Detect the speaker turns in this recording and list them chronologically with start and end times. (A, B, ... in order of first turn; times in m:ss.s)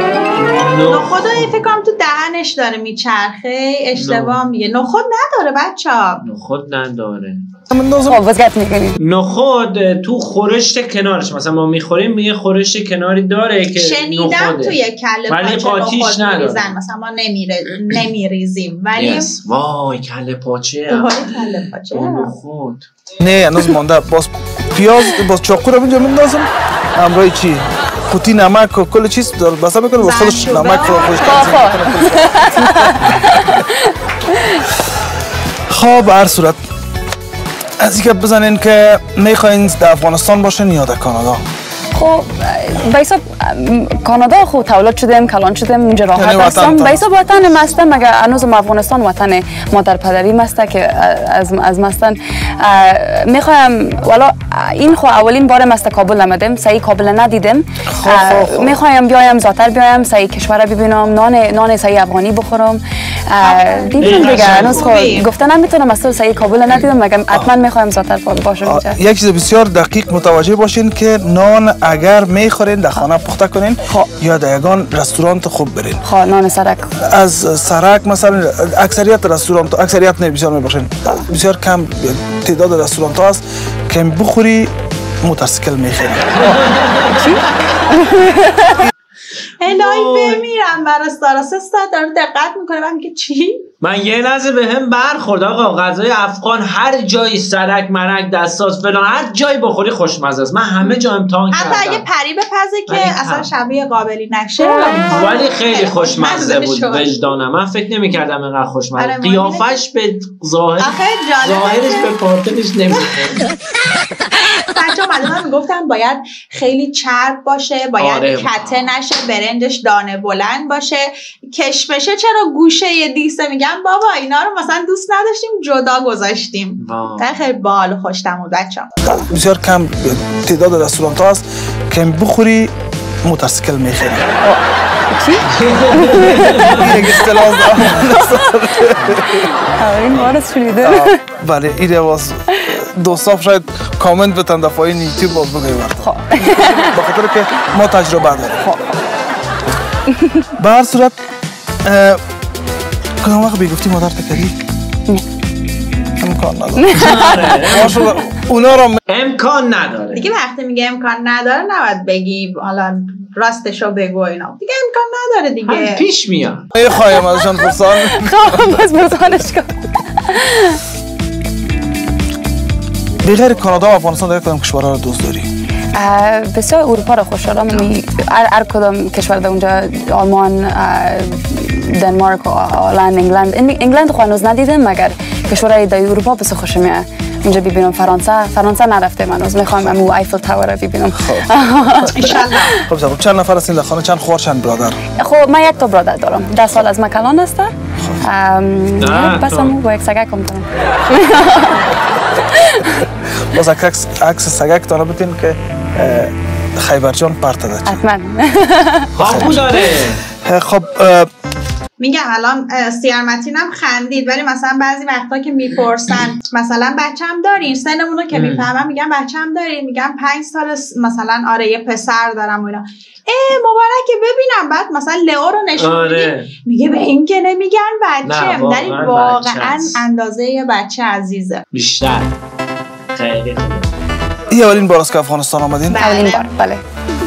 0:00.4-0:01.7 A
0:00.9-0:06.2 B
0:04.0-0:04.4 A
0:06.2-0:07.4 A
0:07.7-0:08.2 C
0:08.1-0:09.0 D
0:09.0-0:16.8 A
0:13.7-0:19.3 B
0:19.0-0:22.9 A
0:20.9-0:22.3 B
0:23.2-0:33.6 C
0:30.0-0:31.6 B
0:31.2-0:34.7 D
0:35.7-0:36.6 C
0:37.8-0:41.4 C
0:41.9-1:09.0 D
0:46.2-0:47.1 C
0:57.9-0:58.8 C
1:03.4-1:05.3 B
1:04.0-1:04.9 A
1:08.6-1:16.0 C
1:16.0-1:16.9 D
1:17.0-1:24.7 C
1:25.2-1:26.6 C
1:26.3-1:27.4 A
1:27.2-1:28.9 D
1:29.6-1:33.6 B
1:29.6-1:30.4 A
1:33.8-1:42.0 A
1:41.5-1:47.1 B
1:42.9-1:43.5 A
1:45.1-1:53.5 A
1:49.0-1:49.8 B
1:50.8-1:52.2 B
1:54.3-2:09.0 B
1:58.0-1:59.0 A
2:06.8-2:07.3 A
2:09.0-2:12.7 C
2:13.2-2:14.3 C
2:14.4-2:18.6 D
2:15.5-2:17.0 A
2:16.5-2:19.6 C
2:19.1-2:21.1 D
2:20.8-2:28.6 C
2:26.0-2:27.0 D
2:30.1-2:30.5 D
2:30.6-2:31.2 C
2:31.8-2:32.2 C
2:33.2-2:34.6 C
2:36.2-2:37.0 C
2:36.8-2:37.7 D
2:36.9-2:38.1 A
2:37.6-2:39.0 C
2:39.1-2:40.3 A
2:40.1-2:46.0 B
2:45.6-2:46.7 A
2:46.7-2:48.7 C
2:46.8-2:50.8 D
2:53.2-2:55.5 C
2:55.9-3:12.6 D
3:09.7-3:10.1 C
3:11.2-3:15.0 C
3:12.1-3:12.8 B
3:15.2-3:23.0 D
3:19.0-3:19.8 A
3:23.5-3:28.0 C
3:27.8-3:29.6 D
3:29.2-3:30.2 A
3:29.2-3:31.3 C
3:32.0-3:51.6 B
3:38.3-3:38.7 A
3:45.7-3:46.5 A
3:48.2-3:50.0 A
3:51.7-3:52.3 A
3:53.1-3:53.9 A
3:54.5-3:56.0 C
3:55.9-3:56.5 B
3:56.0-3:56.8 D